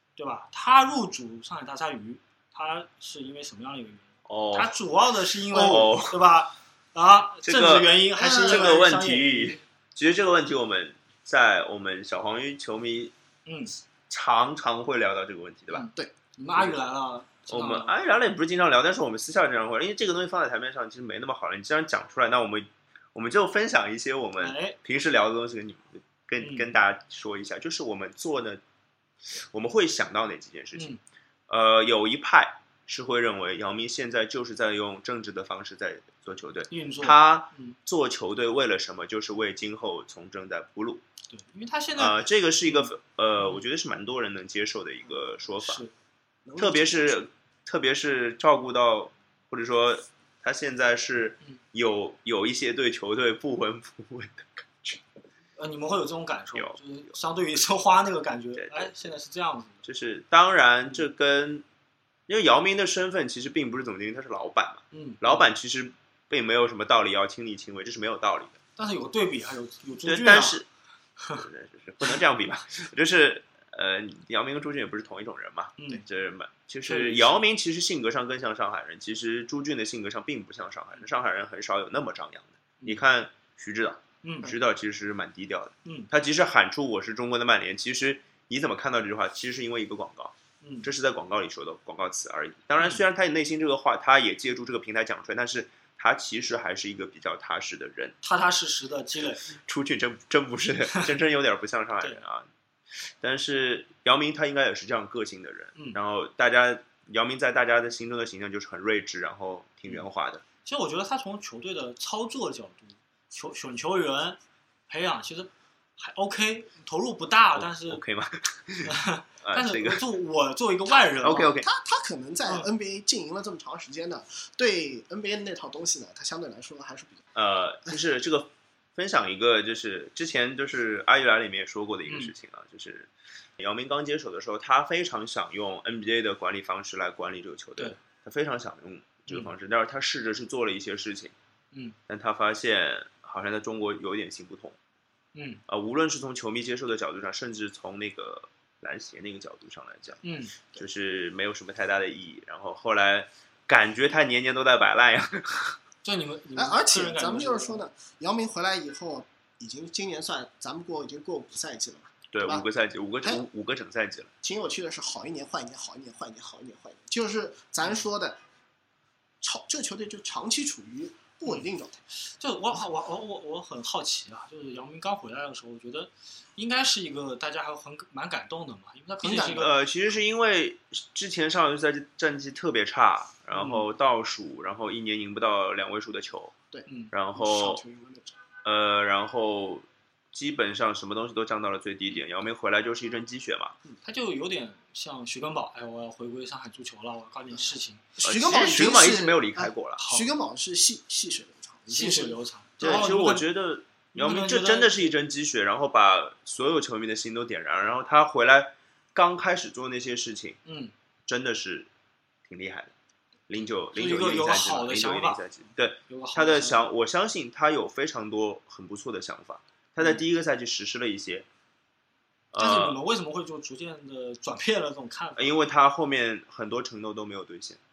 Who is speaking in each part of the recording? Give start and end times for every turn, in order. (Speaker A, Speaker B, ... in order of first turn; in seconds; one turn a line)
Speaker A: 0.2-9.6
Speaker B: 4.3-4.8
Speaker B: 5.5-6.2
Speaker B: 7.4-13.1
Speaker C: 8.1-8.8
Speaker A: 13.4-13.7
Speaker B: 14.1-15.9
Speaker A: 15.7-17.9
Speaker B: 17.5-28.6
Speaker A: 24.4-24.8
Speaker A: 26.4-26.7
Speaker B: 29.3-30.9
Speaker A: 30.7-31.0
Speaker B: 31.5-41.0
Speaker A: 36.7-37.8
Speaker A: 41.3-43.6
Speaker B: 42.0-45.8
Speaker A: 45.6-45.9
Speaker C: 46.5-47.2
Speaker B: 46.5-55.0
Speaker A: 55.6-59.8
Speaker B: 58.6-59.1
Speaker B: 59.8-61.6
Speaker B: 62.3-68.6
Speaker A: 64.9-65.4
Speaker A: 68.8-70.6
Speaker B: 70.0-70.7
Speaker A: 71.2-71.4
Speaker B: 71.3-98.2
Speaker A: 75.8-76.0
Speaker A: 76.8-77.4
Speaker A: 84.2-84.5
Speaker A: 85.8-86.1
Speaker A: 90.6-90.9
Speaker A: 98.2-99.4
Speaker B: 99.5-102.5
Speaker B: 103.0-110.4
Speaker A: 110.6-118.0
Speaker B: 117.5-120.1
Speaker A: 118.8-121.5
Speaker B: 121.2-121.7
Speaker C: 121.6-127.2
Speaker B: 127.3-141.3
Speaker A: 132.1-132.3
Speaker B: 142.1-144.8
Speaker A: 145.3-145.6
Speaker B: 145.7-155.8
Speaker A: 150.2-150.6
Speaker A: 156.0-157.8
Speaker C: 156.6-162.7
Speaker B: 162.3-164.3
Speaker C: 164.4-168.4
Speaker C: 169.4-172.0
Speaker A: 172.2-179.7
Speaker C: 179.2-179.6
Speaker B: 179.3-186.5
Speaker A: 183.5-183.8
Speaker C: 186.7-188.4
Speaker A: 186.9-187.1
Speaker B: 187.1-187.8
Speaker B: 188.6-193.8
Speaker A: 194.0-198.0
Speaker C: 197.5-202.4
Speaker B: 198.2-200.0
Speaker A: 200.0-200.3
Speaker A: 201.9-203.5
Speaker B: 202.8-210.6
Speaker A: 204.1-205.1
Speaker A: 210.6-210.9
Speaker B: 211.3-211.9
Speaker B: 212.5-212.9
Speaker B: 213.5-221.4
Speaker A: 213.9-215.4
Speaker A: 216.1-216.8
Speaker B: 222.5-223.0
Speaker A: 222.6-225.6
Speaker B: 225.4-227.8